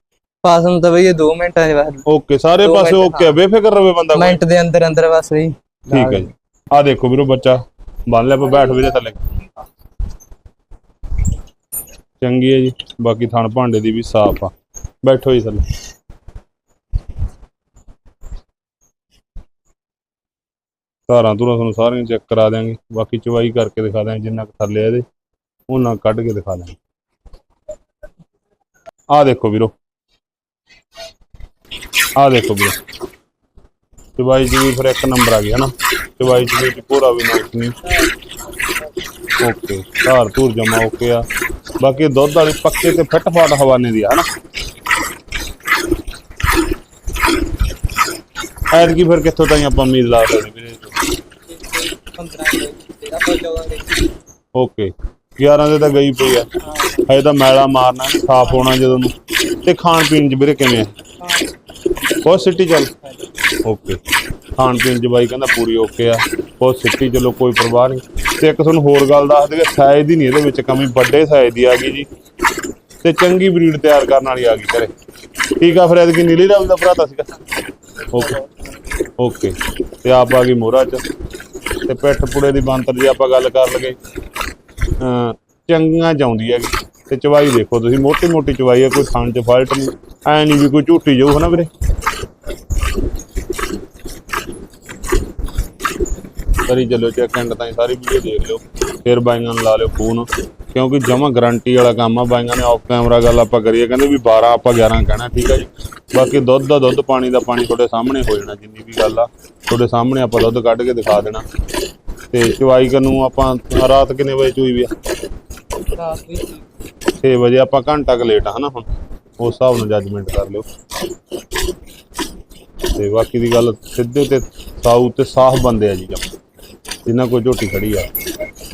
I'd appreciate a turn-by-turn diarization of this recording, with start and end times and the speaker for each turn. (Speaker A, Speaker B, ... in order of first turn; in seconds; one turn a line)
Speaker A: 0.4-2.1
Speaker B: 2.1-4.4
Speaker A: 2.6-3.4
Speaker A: 4.1-6.3
Speaker B: 5.9-9.2
Speaker B: 12.2-15.6
Speaker B: 21.1-25.1
Speaker B: 25.7-26.8
Speaker B: 29.1-29.7
Speaker B: 32.2-32.8
Speaker B: 34.2-37.8
Speaker A: 37.8-38.1
Speaker B: 39.4-41.3
Speaker B: 41.8-44.3
Speaker B: 48.7-50.9
Speaker A: 51.5-54.0
Speaker B: 54.5-56.5
Speaker A: 56.6-57.1
Speaker B: 57.1-59.1
Speaker A: 58.5-58.7
Speaker B: 59.6-60.9
Speaker A: 61.2-61.5
Speaker B: 62.2-62.9
Speaker B: 63.6-64.0
Speaker B: 64.6-72.1
Speaker B: 73.0-74.9
Speaker B: 75.6-77.3
Speaker B: 78.1-78.4
Speaker A: 78.2-78.7
Speaker B: 79.2-81.0
Speaker B: 81.9-84.0
Speaker B: 85.0-91.7
Speaker B: 96.7-111.5
Speaker B: 112.3-114.9
Speaker A: 116.0-116.7
Speaker B: 117.2-118.9
Speaker B: 119.4-120.7
Speaker B: 122.9-126.3
Speaker B: 127.1-128.1